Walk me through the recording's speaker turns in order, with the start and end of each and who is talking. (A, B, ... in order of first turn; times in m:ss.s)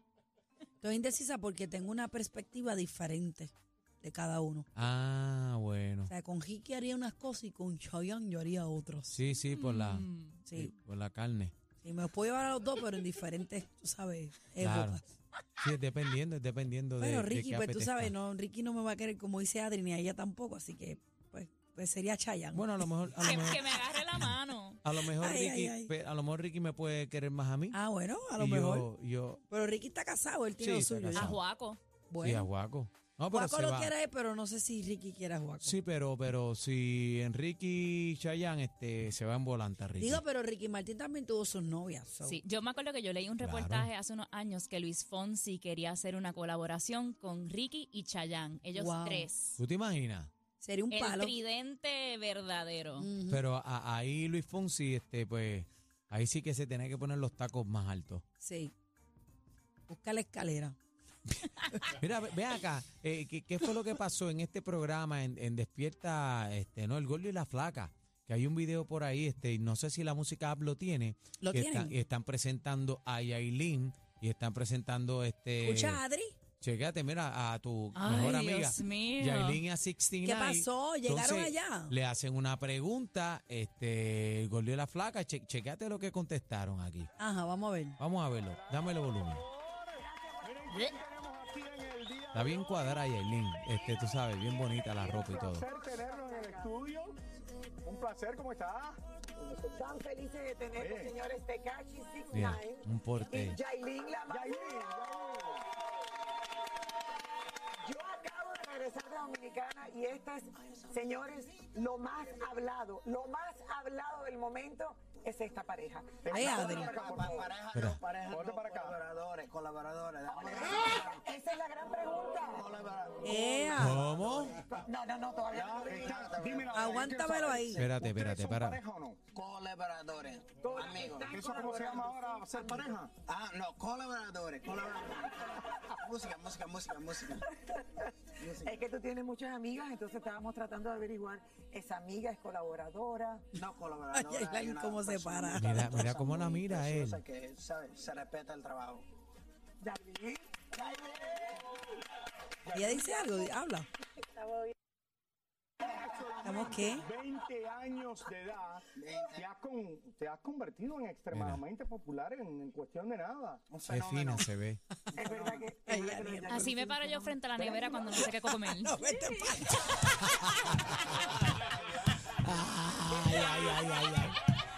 0:00.8-0:04.7 A
0:04.8-0:06.1 B
0:06.1-0:09.2 A
0:09.1-0:11.5 B
0:09.5-0:10.4 C
0:10.5-0:10.7 A
0:11.8-0:15.0 A
0:14.6-0:15.0 B
0:15.6-0:18.2 B
0:17.0-0:23.2 A
0:22.5-0:27.8 B
0:23.2-0:24.8 C
0:25.0-0:25.9 A
0:27.7-0:28.9 A
0:28.4-0:29.4 B
0:29.5-0:31.4 A
0:30.6-0:31.4 B
0:31.1-0:31.8 C
0:32.1-0:32.5 A
0:32.2-0:33.9 B
0:33.3-0:35.8 A
0:35.6-0:40.2 B
0:40.0-0:42.4 A
0:42.2-0:49.6 C
0:43.4-0:43.9 B
0:48.8-0:49.3 A
0:49.6-0:50.3 B
0:50.6-0:51.3 A
0:50.9-0:53.1 C
0:53.0-0:53.4 A
0:53.3-0:58.2 B
0:58.4-0:58.7 A
0:59.9-1:00.8 A
1:01.8-1:16.0 B
1:11.4-1:12.0 A
1:15.6-1:16.4 A
1:16.6-1:27.1 B
1:18.0-1:19.6 C
1:20.2-1:22.0 A
1:27.2-1:28.0 A
1:28.0-1:29.4 B
1:28.5-1:32.9 D
1:32.3-1:35.7 B
1:35.2-1:37.2 D
1:35.8-1:36.6 E
1:37.8-1:39.0 D
1:39.4-1:44.7 E
1:40.8-1:41.1 D
1:42.3-1:43.6 B
1:44.3-1:45.6 D
1:47.8-1:57.5 E
1:56.3-1:57.3 D
1:56.3-1:57.0 A
1:56.4-2:01.3 F
1:57.7-1:58.0 B
1:58.3-1:59.0 D
2:00.3-2:02.7 E
2:02.5-2:03.8 F
2:03.2-2:04.0 A
2:03.8-2:04.6 B
2:04.2-2:04.7 D
2:04.7-2:06.4 E
2:05.5-2:06.7 F
2:05.6-2:09.3 D
2:06.7-2:07.9 A
2:07.8-2:08.8 B
2:09.3-2:11.7 F
2:10.6-2:13.2 D
2:10.7-2:12.8 E
2:13.2-2:17.5 F
2:18.4-2:18.9 F
2:18.6-2:23.4 E
2:23.5-2:29.0 F
2:24.1-2:26.1 A
2:25.5-2:27.2 B
2:29.8-2:30.4 E
2:32.7-2:33.9 A
2:32.8-2:33.5 D
2:35.8-2:43.7 D
2:36.4-2:37.1 A
2:39.0-2:39.5 F
2:41.3-2:41.6 B
2:43.7-2:44.5 F
2:43.9-2:44.8 B
2:45.1-2:46.7 F
2:45.2-2:45.7 D
2:45.8-2:47.2 A
2:46.5-2:49.0 C
2:48.2-2:50.9 A
2:50.2-2:51.6 B
2:52.2-2:54.4 B